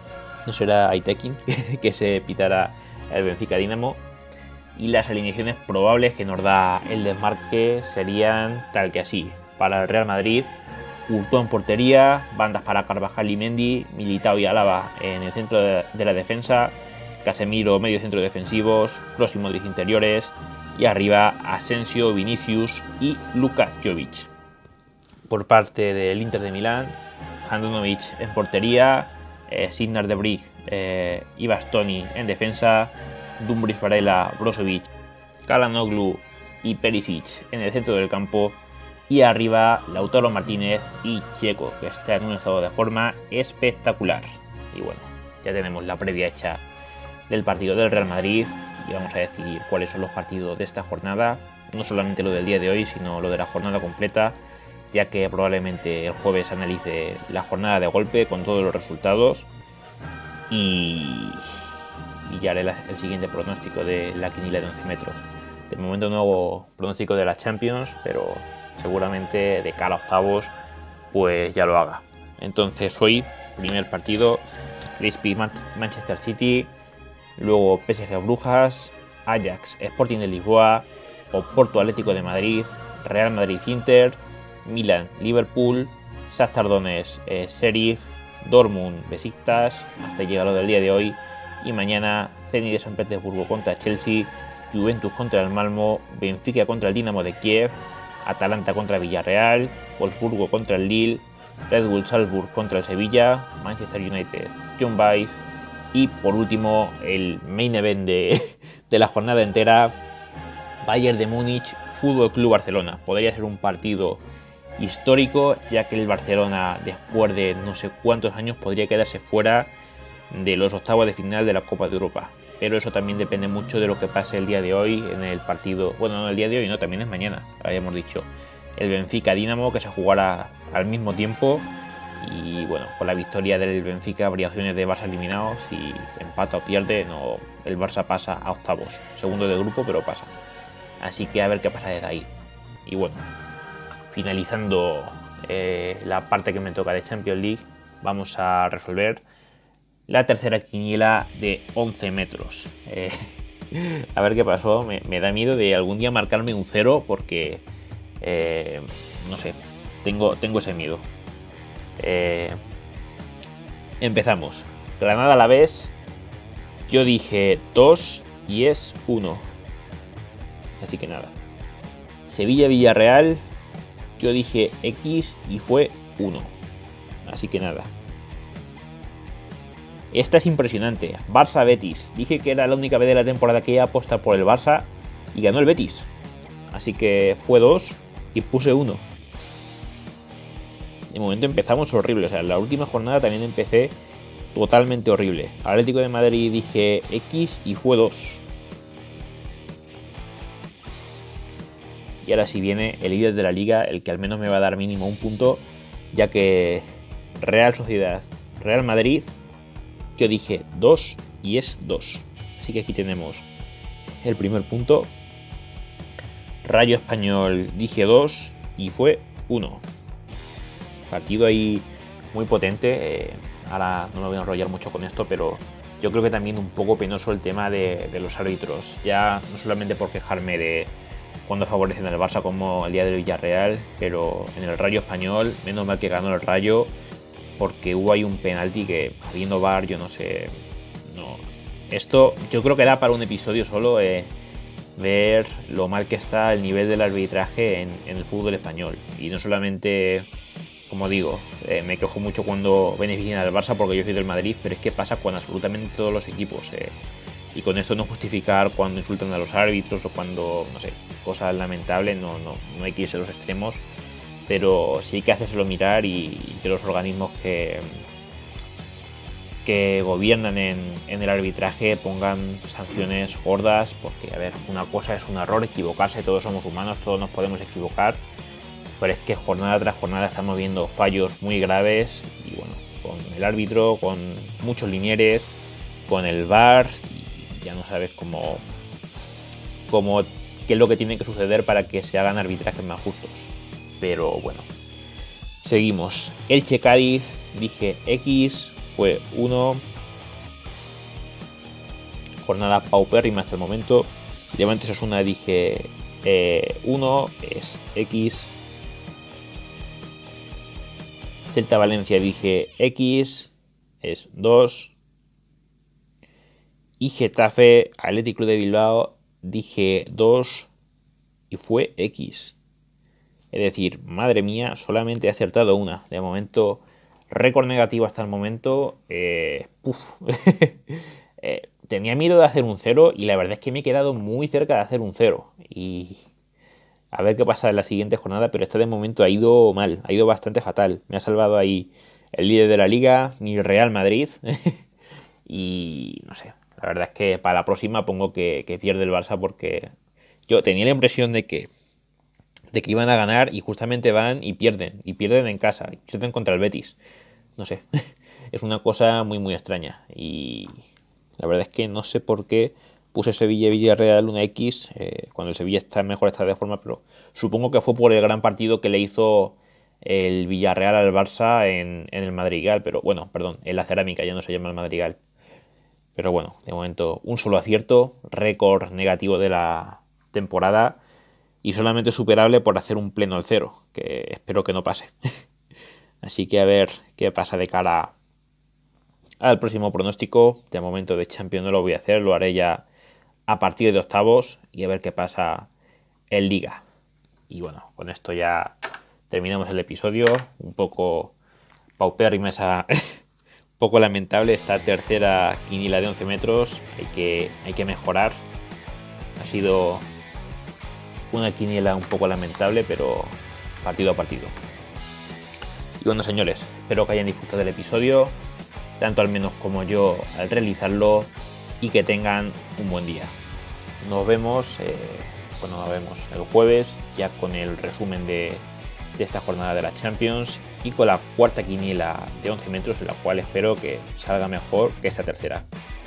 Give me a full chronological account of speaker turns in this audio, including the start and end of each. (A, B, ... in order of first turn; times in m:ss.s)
0:00.4-0:04.0 A
0:04.7-0:10.5 A
0:11.1-0:24.3 A
0:25.3-0:34.9 A
0:35.5-0:46.6 A
0:47.3-0:54.4 A
0:54.9-0:59.5 A
1:00.5-1:01.7 A
1:02.2-1:10.5 A
1:11.1-1:14.4 A
1:15.0-1:16.7 A
1:17.4-1:45.4 A
1:45.9-1:50.0 A
1:50.8-1:54.2 A
1:54.8-1:59.7 A
2:00.3-2:20.3 A
2:21.0-2:22.3 A
2:22.8-2:23.3 A
2:24.1-2:29.2 A
2:30.1-2:37.6 A
2:38.2-2:41.1 A
2:42.0-2:42.6 A
2:44.0-2:45.9 A
2:46.9-2:49.4 A
2:50.8-2:51.3 A
2:52.3-2:53.4 A
2:54.2-2:56.5 A
2:57.2-2:57.9 A
3:00.1-3:06.1 A
3:06.7-3:09.0 A
3:11.1-3:13.9 A
3:14.5-3:18.5 A
3:22.2-3:26.8 A
3:27.4-3:29.3 A
3:30.2-3:33.4 A
3:34.2-3:35.1 A
3:36.6-3:39.8 A
3:41.1-3:50.9 A
3:51.4-3:56.9 A
3:57.6-4:00.5 A
4:01.0-4:04.3 A
4:05.0-4:10.3 A
4:10.9-4:17.0 A
4:17.5-4:23.8 A
4:24.5-4:28.0 A
4:29.6-4:38.2 A
4:39.0-4:45.5 A
4:46.1-4:48.6 A
4:49.9-4:54.7 A
4:55.6-4:59.8 A
5:02.4-5:08.5 A
5:11.5-5:15.0 A
5:17.0-5:20.7 A
5:21.5-5:22.6 A
5:23.5-5:36.2 A
5:37.1-5:44.8 A
5:45.4-5:49.9 A
5:50.5-5:51.7 A
5:52.7-5:57.0 A
5:57.6-5:57.8 A
5:58.5-6:00.8 A
6:01.4-6:15.2 A
6:16.2-6:21.0 A
6:21.6-6:25.1 A
6:26.2-6:28.1 A
6:29.4-6:32.8 A
6:33.5-6:35.7 A
6:36.3-6:36.8 A
6:37.5-6:38.8 A
6:39.3-6:41.4 A
6:42.0-6:43.2 A
6:43.8-6:48.4 A
6:49.4-6:50.1 A
6:51.3-6:54.5 A
6:56.0-6:58.4 A
6:59.0-7:03.3 A
7:04.0-7:15.7 A